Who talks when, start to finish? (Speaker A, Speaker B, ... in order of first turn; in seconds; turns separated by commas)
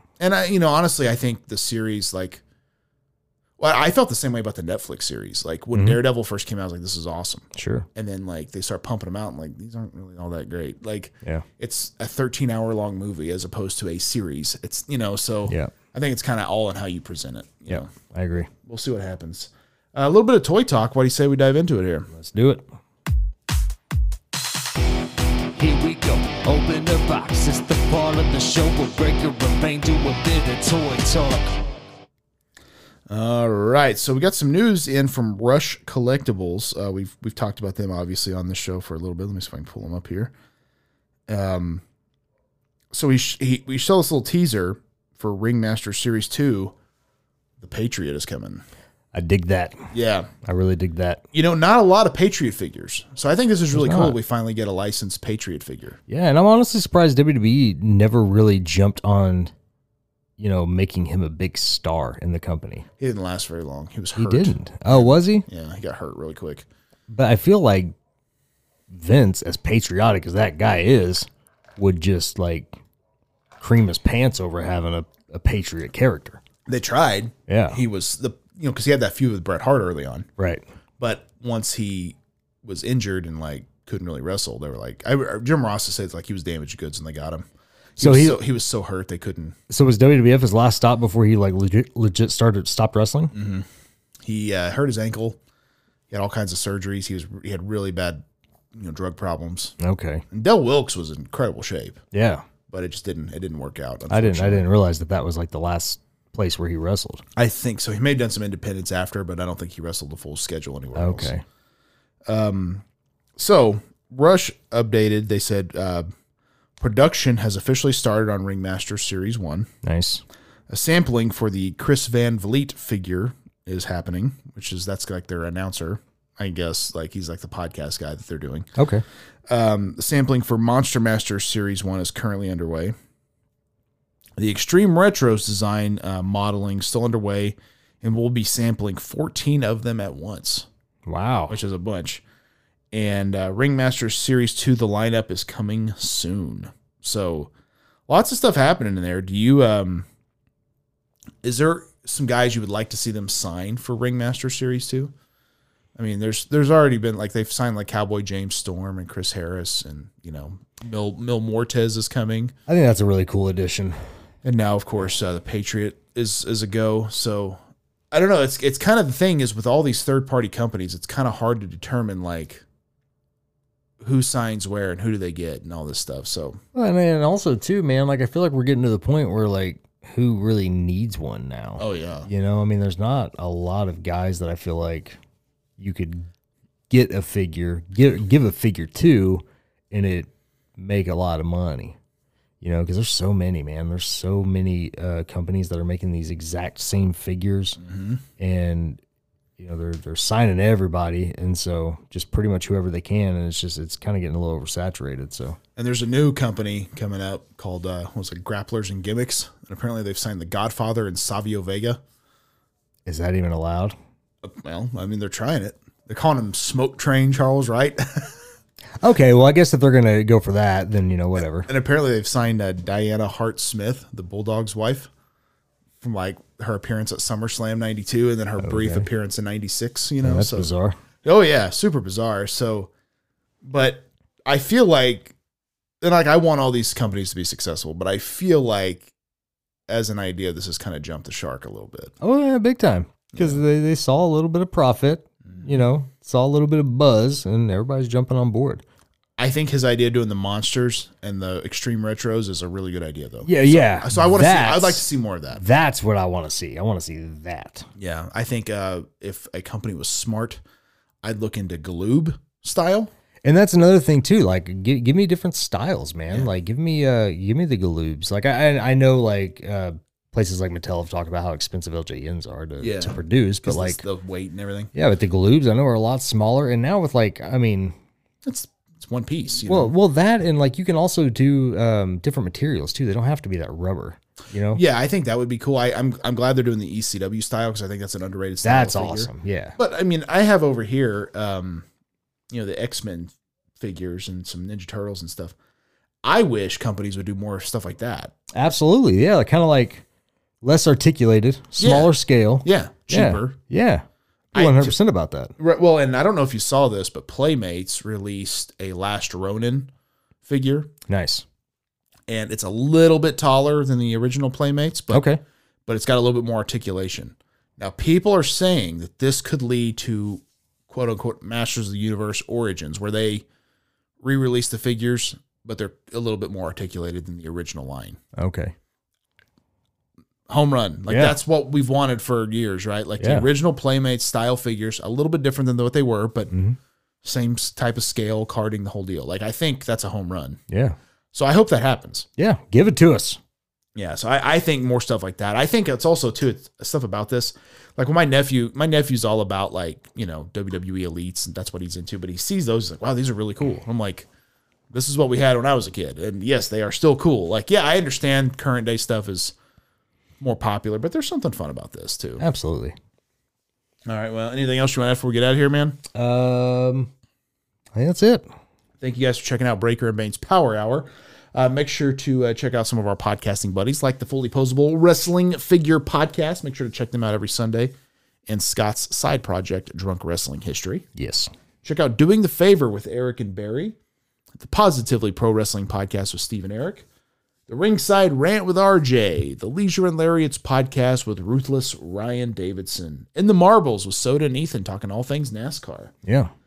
Speaker A: 0.2-2.4, Speaker A: 3.6-17.9, Speaker B: 5.7-6.0, Speaker B: 7.5-7.9, Speaker B: 15.5-15.7, Speaker B: 17.7-18.5, Speaker A: 18.6-22.1, Speaker B: 22.1-22.6, Speaker C: 25.6-31.6, Speaker A: 33.1-40.3, Speaker A: 41.3-41.8, Speaker A: 42.9-46.7, Speaker A: 47.6-48.6, Speaker B: 49.1-49.9, Speaker A: 49.9-50.3, Speaker B: 50.4-51.2, Speaker A: 51.3-56.0, Speaker B: 53.7-54.2, Speaker B: 56.1-59.5, Speaker B: 60.4-62.9, Speaker A: 63.0-66.7, Speaker B: 64.2-65.4, Speaker B: 67.1-67.9, Speaker B: 68.9-72.7, Speaker B: 73.6-76.4, Speaker A: 76.7-80.3, Speaker B: 77.5-77.8, Speaker B: 80.4-80.6, Speaker A: 81.0-89.6, Speaker B: 88.0-88.4, Speaker B: 89.7-93.3, Speaker A: 93.3-93.7, Speaker A: 94.2-95.4, Speaker A: 96.1-98.2, Speaker A: 98.7-99.7, Speaker B: 99.8-100.2, Speaker A: 100.3-102.0, Speaker B: 102.1-102.4, Speaker A: 102.7-104.6, Speaker B: 104.1-107.2, Speaker A: 107.3-111.3, Speaker B: 110.9-111.4, Speaker A: 112.2-112.8, Speaker A: 113.4-116.1, Speaker A: 116.8-119.7, Speaker B: 119.8-120.2, Speaker A: 120.7-128.7, Speaker B: 128.8-129.0, Speaker A: 129.5-132.9, Speaker A: 134.4-140.7, Speaker B: 141.1-141.6, Speaker A: 141.5-142.2, Speaker A: 142.9-147.5, Speaker A: 148.1-150.1, Speaker A: 151.4-155.1, Speaker A: 155.9-162.5, Speaker B: 162.7-164.0, Speaker A: 164.4-167.6, Speaker A: 168.1-172.6, Speaker A: 174.0-176.6, Speaker B: 176.7-185.2, Speaker A: 181.8-182.3, Speaker B: 185.8-186.3, Speaker B: 186.9-191.9, Speaker B: 192.6-197.8, Speaker A: 197.8-198.2, Speaker B: 198.4-199.0, Speaker B: 199.6-205.6, Speaker A: 205.8-212.0, Speaker B: 213.1-213.9, Speaker A: 214.4-218.4, Speaker B: 219.0-221.7, Speaker A: 221.7-225.1, Speaker A: 226.0-230.7, Speaker B: 228.6-229.1, Speaker B: 230.2-230.9, Speaker A: 231.2-232.9, Speaker A: 233.6-235.3, Speaker A: 236.0-239.1, Speaker A: 239.9-242.1, Speaker B: 242.2-248.8, Speaker A: 243.3-243.6, Speaker A: 249.4-255.6, Speaker B: 253.4-257.9, Speaker A: 258.0-260.6, Speaker A: 261.2-263.1, Speaker B: 263.4-274.0, Speaker A: 272.8-274.9, Speaker B: 274.9-277.9, Speaker A: 278.4-279.9, Speaker B: 279.7-284.8, Speaker A: 284.7-291.9, Speaker B: 288.6-289.8, Speaker A: 292.5-295.5, Speaker A: 296.2-298.3, Speaker B: 298.5-300.0, Speaker B: 300.6-305.5, Speaker A: 301.8-302.1, Speaker A: 302.6-303.6, Speaker A: 304.5-304.9, Speaker A: 305.6-309.9, Speaker A: 310.4-310.9, Speaker B: 311.1-311.4, Speaker A: 312.3-315.2, Speaker B: 315.1-315.4, Speaker A: 315.9-323.4, Speaker A: 324.2-328.2, Speaker B: 328.4-328.7, Speaker A: 330.5-336.5, Speaker B: 331.1-331.4, Speaker B: 333.2-333.5, Speaker B: 336.5-336.8, Speaker A: 337.2-340.6, Speaker B: 340.7-340.9, Speaker A: 341.3-342.3, Speaker B: 342.4-343.4, Speaker A: 343.9-354.3, Speaker A: 354.9-359.5, Speaker A: 360.4-362.4, Speaker B: 362.4-362.9, Speaker A: 364.1-366.0, Speaker B: 366.1-367.1, Speaker B: 367.9-368.5, Speaker A: 369.0-377.9, Speaker A: 378.5-381.1, Speaker B: 381.2-381.5, Speaker A: 381.8-383.9, Speaker A: 384.6-387.0, Speaker A: 387.7-396.1, Speaker B: 396.2-396.5